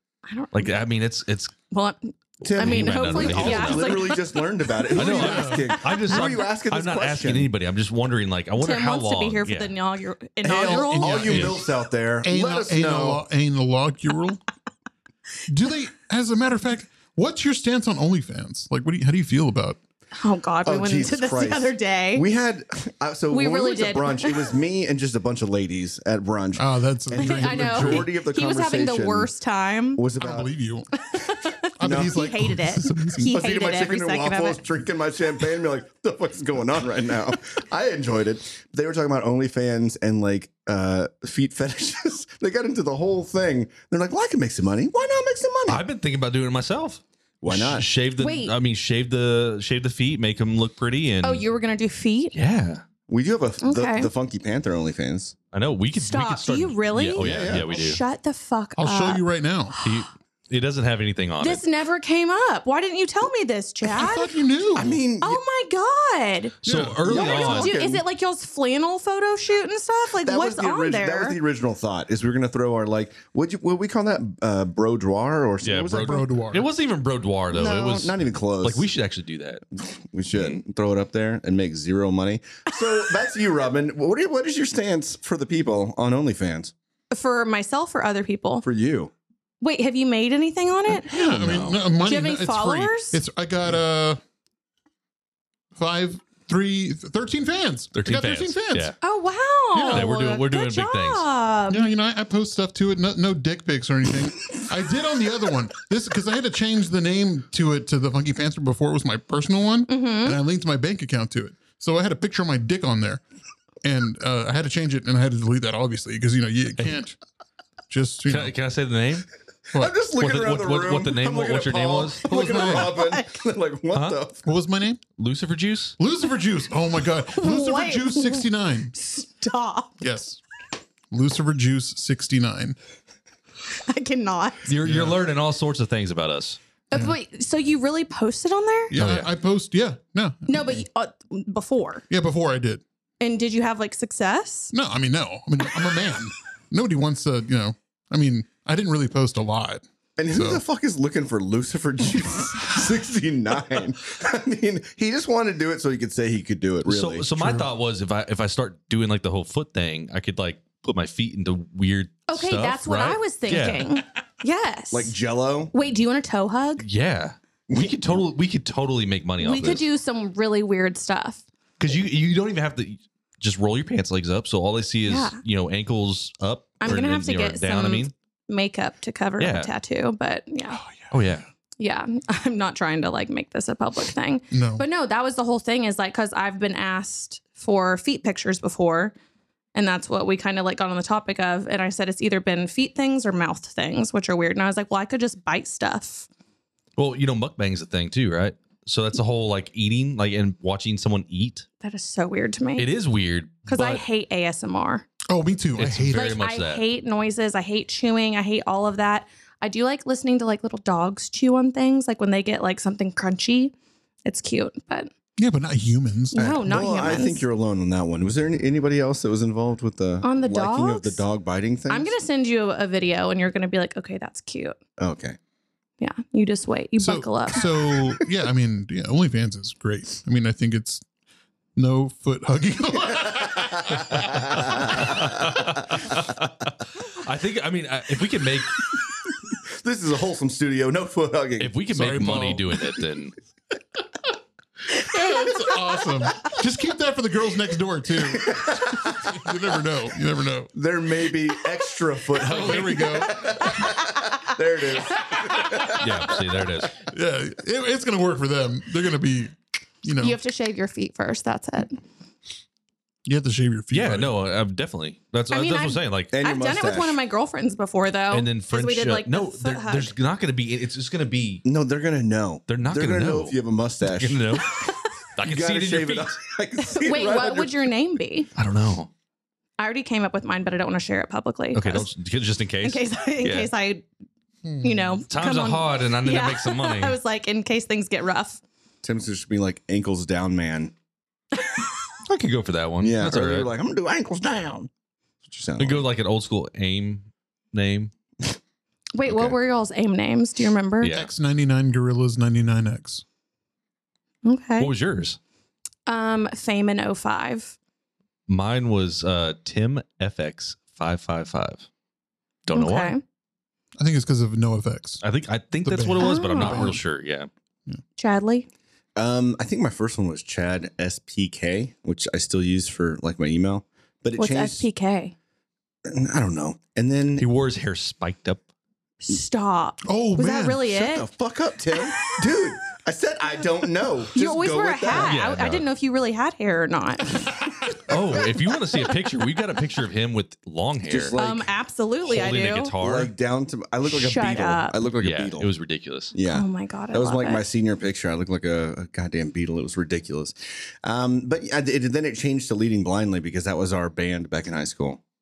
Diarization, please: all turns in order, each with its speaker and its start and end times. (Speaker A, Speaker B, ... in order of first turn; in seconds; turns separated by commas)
Speaker A: 0.3-0.7, Speaker B: 0.5-1.5, Speaker A: 1.7-6.2, Speaker C: 2.4-7.5, Speaker B: 2.6-4.1, Speaker B: 4.9-9.7, Speaker D: 5.1-5.7, Speaker A: 8.6-11.5, Speaker C: 10.4-13.2, Speaker D: 10.4-11.7, Speaker B: 11.3-11.6, Speaker D: 12.2-14.4, Speaker D: 15.5-19.8, Speaker A: 20.1-22.2, Speaker C: 20.6-29.3, Speaker A: 23.3-24.5, Speaker D: 26.6-28.1, Speaker A: 27.2-30.0, Speaker C: 29.9-30.5, Speaker D: 30.2-30.9, Speaker A: 31.0-34.6, Speaker D: 31.8-33.4, Speaker C: 31.8-32.3, Speaker C: 33.2-45.8, Speaker B: 45.7-51.4, Speaker C: 47.4-47.9, Speaker A: 48.2-48.5, Speaker A: 51.2-52.3, Speaker B: 52.3-52.8, Speaker C: 53.1-55.3, Speaker A: 53.6-54.1, Speaker B: 55.5-58.0, Speaker A: 56.0-59.2, Speaker C: 57.2-57.7, Speaker D: 58.8-59.8, Speaker B: 59.8-61.6, Speaker A: 61.4-64.3, Speaker D: 63.8-65.0, Speaker C: 64.7-65.4, Speaker A: 65.2-71.4, Speaker B: 66.6-67.7, Speaker D: 66.7-67.0, Speaker C: 67.0-68.0, Speaker C: 70.2-76.2, Speaker B: 75.6-79.6, Speaker D: 76.0-76.7, Speaker C: 77.5-78.9, Speaker C: 79.8-86.7, Speaker A: 87.1-88.7, Speaker C: 88.6-89.1, Speaker A: 89.6-91.4, Speaker D: 91.0-94.2, Speaker B: 91.2-91.8, Speaker A: 92.0-93.2, Speaker D: 95.7-98.9, Speaker B: 97.9-99.0, Speaker A: 99.0-101.9, Speaker D: 99.7-100.1, Speaker B: 99.9-101.2, Speaker D: 101.7-113.2, Speaker A: 109.9-110.4, Speaker D: 113.8-117.2, Speaker D: 117.9-118.5, Speaker B: 118.2-119.3, Speaker C: 119.7-124.4, Speaker B: 120.2-122.2, Speaker D: 122.2-123.0, Speaker A: 122.3-123.3, Speaker B: 123.9-124.2, Speaker D: 124.4-125.0, Speaker B: 125.2-126.0, Speaker D: 126.0-128.9, Speaker A: 127.3-129.9, Speaker D: 130.0-130.4, Speaker D: 131.1-132.8, Speaker A: 133.7-134.7, Speaker B: 134.7-136.6, Speaker D: 134.8-135.2, Speaker A: 136.9-138.9, Speaker D: 138.9-140.8, Speaker B: 138.9-139.3, Speaker A: 140.5-142.0, Speaker D: 142.1-142.8, Speaker A: 143.2-144.7, Speaker D: 144.7-150.6, Speaker C: 150.2-157.3, Speaker B: 156.8-164.0, Speaker D: 157.4-157.7, Speaker A: 162.3-165.1, Speaker C: 164.9-165.7, Speaker A: 165.7-166.8, Speaker B: 166.8-169.8, Speaker C: 167.7-168.0, Speaker A: 169.4-171.4, Speaker B: 171.8-178.1, Speaker A: 175.1-175.4, Speaker A: 176.8-180.8, Speaker B: 179.4-179.7, Speaker D: 180.7-181.1, Speaker B: 181.1-181.4, Speaker A: 181.8-189.1, Speaker D: 184.5-184.8, Speaker A: 189.7-196.3, Speaker B: 197.0-201.7, Speaker A: 201.8-202.9, Speaker B: 202.8-204.0, Speaker A: 203.7-205.1, Speaker D: 205.3-206.4, Speaker B: 205.8-206.8, Speaker A: 206.1-213.7, Speaker A: 214.2-215.1, Speaker D: 215.4-217.2, Speaker A: 216.3-217.4, Speaker C: 216.3-222.1, Speaker A: 220.2-221.2, Speaker A: 221.9-224.8, Speaker C: 225.0-225.4, Speaker A: 226.0-227.7, Speaker D: 227.0-231.0, Speaker D: 231.8-235.2, Speaker C: 233.0-235.6, Speaker B: 234.9-238.8, Speaker C: 239.5-241.8, Speaker B: 241.6-243.3, Speaker D: 241.9-242.6, Speaker D: 244.9-250.7, Speaker C: 248.2-249.5, Speaker C: 250.7-256.9, Speaker D: 252.3-253.8, Speaker B: 256.0-256.9, Speaker D: 257.0-260.4, Speaker A: 260.2-262.0, Speaker D: 263.2-264.3, Speaker B: 263.9-266.3, Speaker A: 265.5-270.1, Speaker C: 266.3-267.2, Speaker B: 268.3-271.6, Speaker C: 271.6-274.6, Speaker B: 272.7-274.7, Speaker A: 274.6-275.1, Speaker B: 275.4-276.4, Speaker C: 275.4-277.9, Speaker A: 276.8-278.5, Speaker B: 278.6-279.1, Speaker A: 279.8-282.1, Speaker B: 281.7-283.7, Speaker A: 282.8-284.1, Speaker D: 284.6-285.0, Speaker A: 284.8-288.6, Speaker B: 285.3-287.2, Speaker C: 289.0-290.9, Speaker A: 291.6-291.8, Speaker B: 292.2-293.7, Speaker C: 293.0-294.9, Speaker C: 295.4-296.0, Speaker B: 295.8-298.1, Speaker A: 299.1-301.1, Speaker B: 301.0-301.3, Speaker D: 301.1-303.2, Speaker A: 304.4-304.9, Speaker B: 304.8-305.4, Speaker A: 306.1-307.8, Speaker B: 308.5-311.8, Speaker B: 312.6-313.1, Speaker A: 312.7-313.2, Speaker D: 314.0-315.2, Speaker B: 315.2-317.5, Speaker D: 315.8-317.0, Speaker A: 316.2-317.0, Speaker A: 318.2-318.7, Speaker C: 319.1-324.9, Speaker A: 324.4-325.3, Speaker C: 326.0-327.4, Speaker B: 327.4-328.6, Speaker A: 329.2-331.3, Speaker D: 330.1-331.0, Speaker C: 330.9-335.3, Speaker A: 334.3-337.9, Speaker B: 335.1-335.8, Speaker B: 338.1-341.3, Speaker C: 341.1-341.7, Speaker A: 341.4-342.9, Speaker B: 342.2-343.3, Speaker C: 343.0-345.7, Speaker A: 344.0-345.0, Speaker B: 345.2-346.3, Speaker C: 346.3-355.2, Speaker A: 346.5-347.6